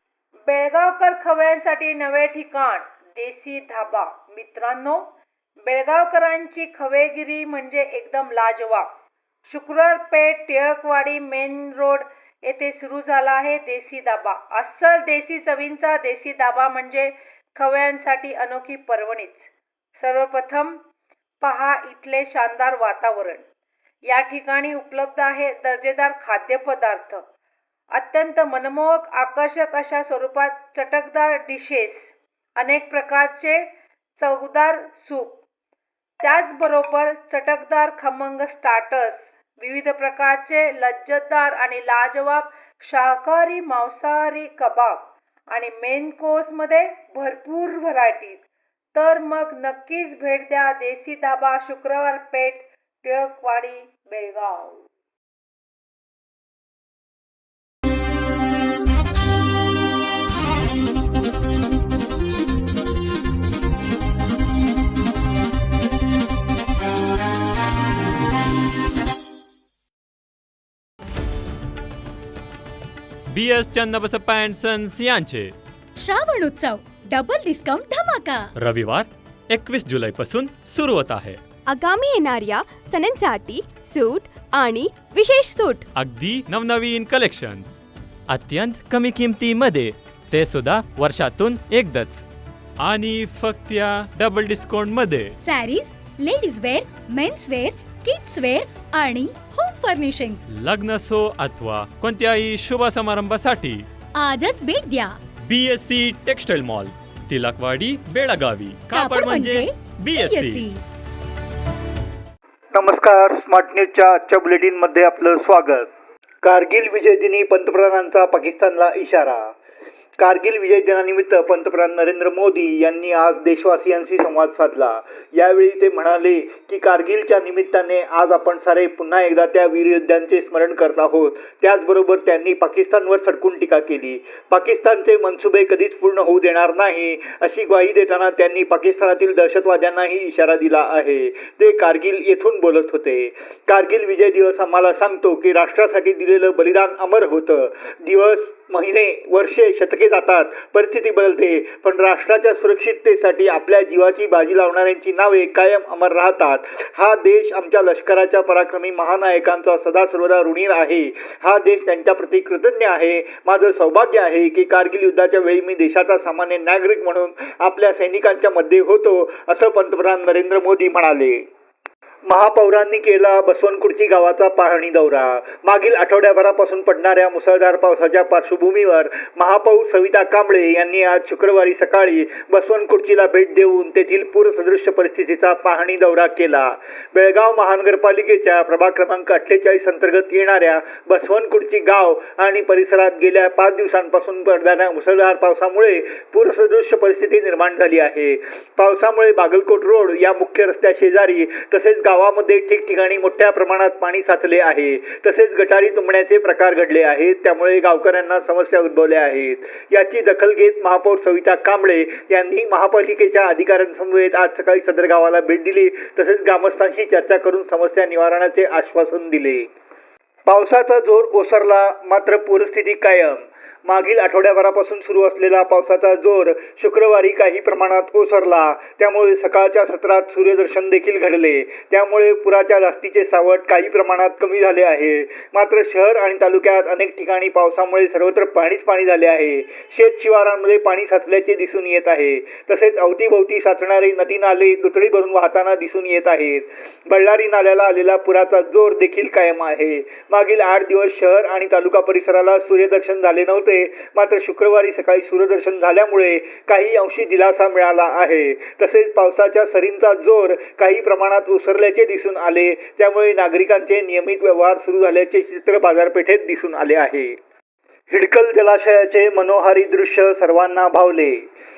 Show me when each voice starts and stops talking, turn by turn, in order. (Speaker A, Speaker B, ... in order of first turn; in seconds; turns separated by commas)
Speaker A: 0.5-5.1, Speaker A: 5.7-8.9, Speaker A: 9.4-20.8, Speaker A: 21.4-23.4, Speaker A: 24.0-27.2, Speaker A: 27.9-35.4, Speaker A: 36.2-48.4, Speaker A: 48.9-54.8, Speaker B: 73.3-75.5, Speaker C: 76.0-78.5, Speaker B: 78.6-81.4, Speaker D: 81.7-85.8, Speaker B: 85.9-87.8, Speaker B: 88.3-92.2, Speaker B: 92.8-95.3, Speaker C: 95.4-100.5, Speaker B: 100.5-103.9, Speaker C: 104.1-105.2, Speaker B: 105.4-110.7, Speaker C: 108.9-110.8, Speaker E: 112.7-115.9, Speaker E: 116.4-119.5, Speaker E: 120.2-171.4, Speaker E: 172.2-219.7, Speaker E: 220.4-267.4, Speaker E: 268.1-271.4